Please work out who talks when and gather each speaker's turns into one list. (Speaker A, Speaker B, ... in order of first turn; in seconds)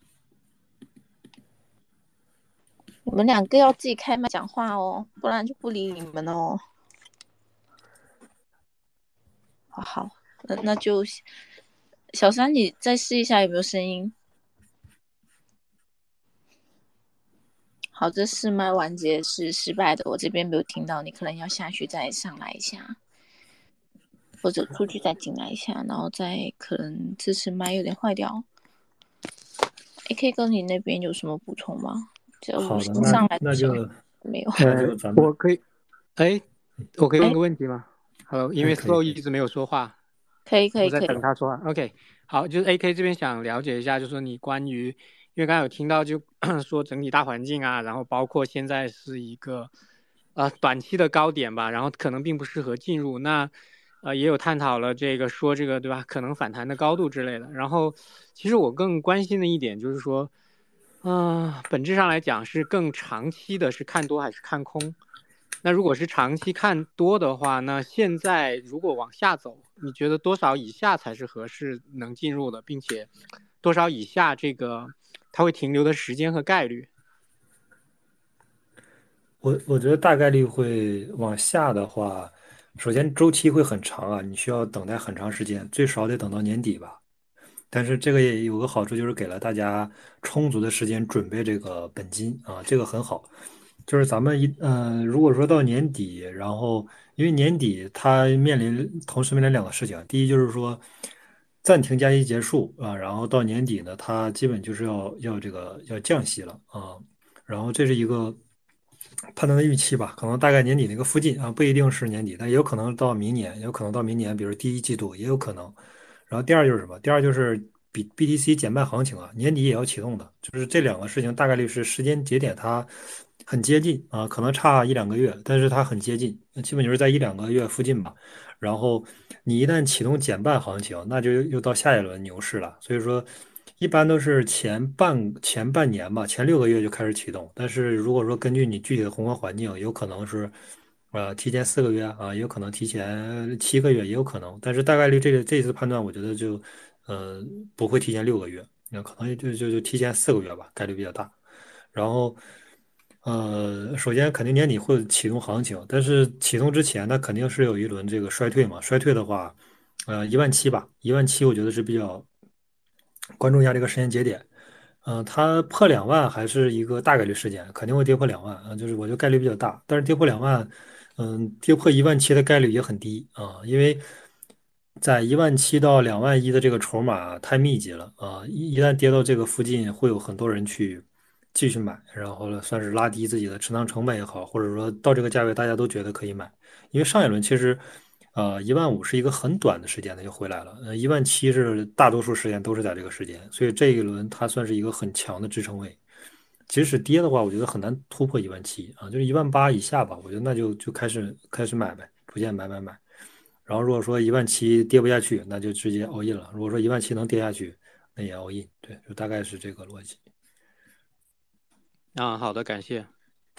Speaker A: 3.0-6.6, 9.7-11.2, 12.1-14.1, 17.9-22.9, 24.4-28.4, 30.1-34.6, 40.5-41.2
Speaker B: 32.6-34.0, 34.6-35.3, 38.6-39.2, 79.4-87.0, 87.7-93.3, 93.9-100.8, 101.6-108.4, 109.3-140.5, 141.1-151.3, 151.9-152.4, 153.2-159.6, 160.1-162.3, 163.4-164.4, 165.0-174.1, 175.0-187.8, 188.3-196.0, 196.7-203.0, 203.7-210.2
Speaker C: 34.6-35.6, 36.1-36.4, 36.9-39.9, 40.8-49.7, 50.3-60.3, 61.0-65.0, 65.6-73.1, 73.6-76.9, 212.1-213.1